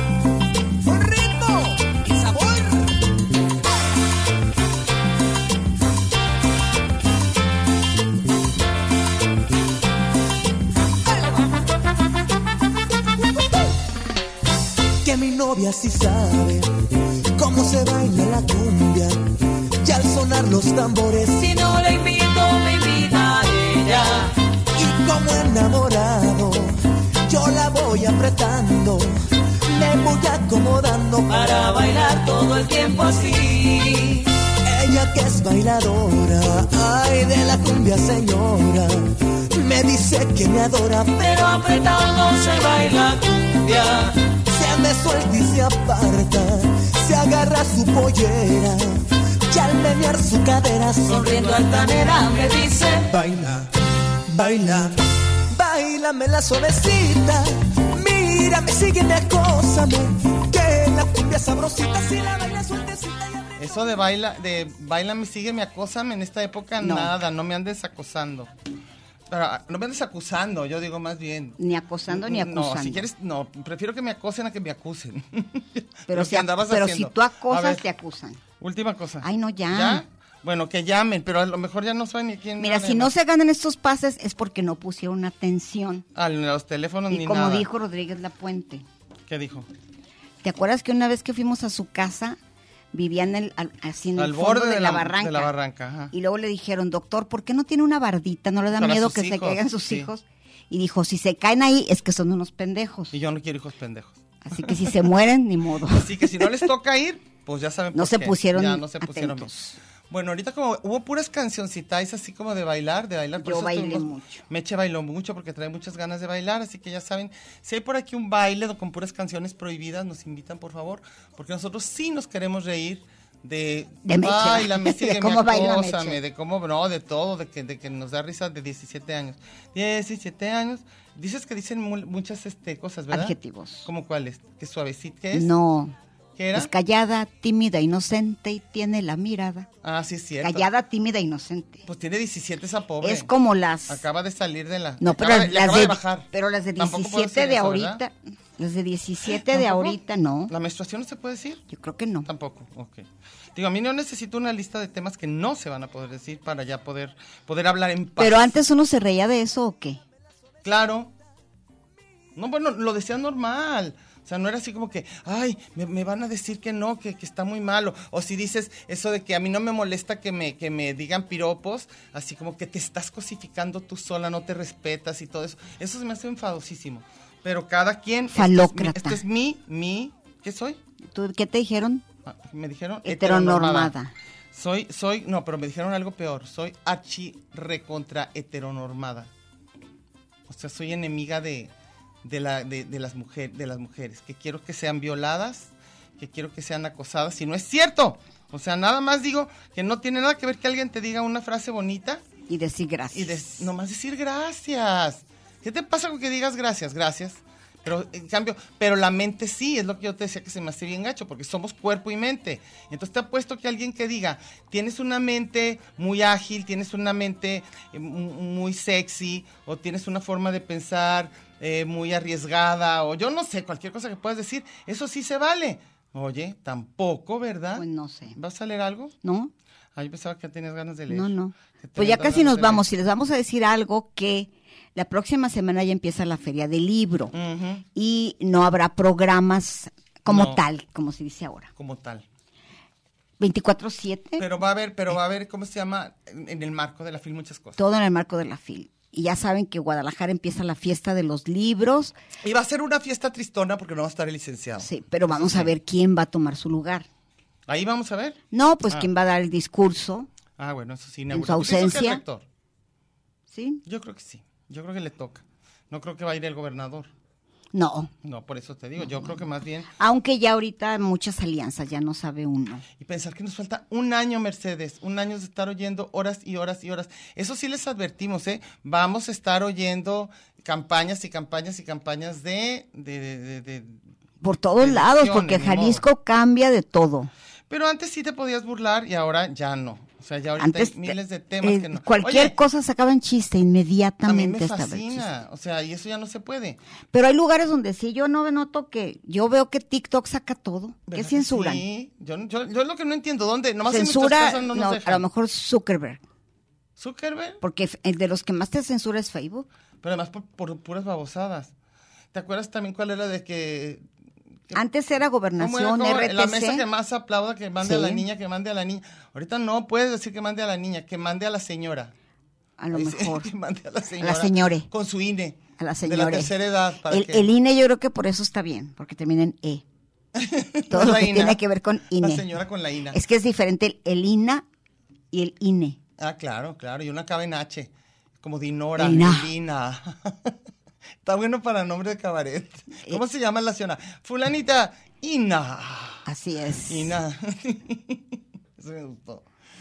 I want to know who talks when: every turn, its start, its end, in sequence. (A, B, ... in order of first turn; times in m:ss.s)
0:00.8-0:03.0 A
0:15.0-0:16.7 A
0:17.4-0:19.2 A
0:19.8-0:21.5 A
0:21.3-0:24.3 B
0:24.8-0:26.7 A
0:27.2-0:29.1 A
0:29.6-0:31.4 A
0:31.3-0:34.3 B
0:34.6-0:39.0 A
0:39.5-0:41.3 A
0:41.2-0:44.1 B
0:44.3-0:51.3 A
0:51.0-0:53.1 B
0:53.1-0:53.7 A
0:54.3-0:55.0 A
0:55.5-1:03.6 A
1:03.6-1:08.5 C
1:06.8-1:07.1 D
1:09.3-1:17.8 C
1:11.6-1:13.1 D
1:16.1-1:18.4 D
1:18.6-1:23.1 C
1:19.2-1:20.0 D
1:22.6-1:26.0 D
1:26.1-1:27.7 C
1:27.1-1:28.8 D
1:29.3-1:29.7 C
1:30.4-1:32.4 D
1:32.9-1:35.5 D
1:34.2-1:36.1 C
1:36.1-1:43.1 D
1:38.7-1:40.1 C
1:43.1-1:45.1 C
1:44.4-1:46.6 D
1:45.9-1:49.5 C
1:47.9-1:49.8 D
1:50.1-2:15.5 C
1:53.4-1:54.4 D
2:04.0-2:06.2 D
2:13.1-2:13.9 D
2:15.3-2:15.9 D
2:16.4-2:16.7 C
2:16.5-2:19.7 D
2:19.8-2:20.7 C
2:20.4-2:21.8 D
2:21.8-2:23.3 C
2:23.0-2:24.0 D
2:23.9-2:28.0 C
2:25.0-2:30.5 D
2:29.3-2:31.6 C
2:31.7-2:32.3 D
2:32.2-2:38.6 C
2:38.2-2:40.0 D
2:40.6-2:41.1 C
2:42.3-3:00.8 C
2:58.3-2:59.2 D
3:01.1-3:02.0 D
3:02.2-3:03.9 C
3:03.0-3:04.1 D
3:04.5-3:09.3 C
3:10.5-3:11.7 C
3:12.2-3:22.2 C
3:22.5-3:23.6 D
3:23.1-3:49.1 C
3:47.8-3:48.4 D
3:49.2-3:49.5 D
3:49.9-3:52.8 C
3:51.1-3:57.3 D
3:57.3-3:57.8 C
3:57.9-4:01.7 D
4:00.2-4:00.6 C
4:01.8-4:02.2 C
4:03.4-4:04.4 D
4:04.4-4:07.8 C
4:07.8-4:12.1 D
4:12.4-4:15.7 C
4:14.8-4:17.0 D
4:17.7-4:19.1 C
4:18.5-4:20.3 D
4:20.6-4:22.4 C
4:21.3-4:22.2 D
4:23.5-4:23.8 D
4:23.8-4:27.1 C
4:27.7-4:28.1 D
4:28.2-4:29.9 C
4:29.0-4:29.4 D
4:30.0-4:32.8 D
4:33.0-4:44.0 C
4:44.4-4:47.3 D
4:44.8-4:46.0 C
4:47.7-4:52.5 C
4:50.6-4:55.3 D
4:54.2-4:56.8 C
4:57.1-5:01.8 D
5:01.1-5:05.2 C
5:03.9-5:06.2 D
5:07.0-5:07.6 C
5:07.6-5:09.7 D
5:10.0-5:11.7 C
5:12.3-5:14.0 C
5:14.7-5:16.8 D
5:15.6-5:22.1 C
5:17.8-5:18.2 D
5:22.8-5:23.5 D
5:22.9-5:27.5 C
5:24.2-5:24.9 D
5:25.8-5:26.5 D
5:27.0-5:29.8 D
5:30.3-5:33.2 C
5:30.9-5:32.4 D
5:33.1-5:34.6 D
5:35.3-5:36.0 D
5:36.2-5:40.5 C
5:39.0-5:39.5 D
5:41.2-5:46.2 C
5:46.2-5:47.2 D
5:46.9-5:49.4 C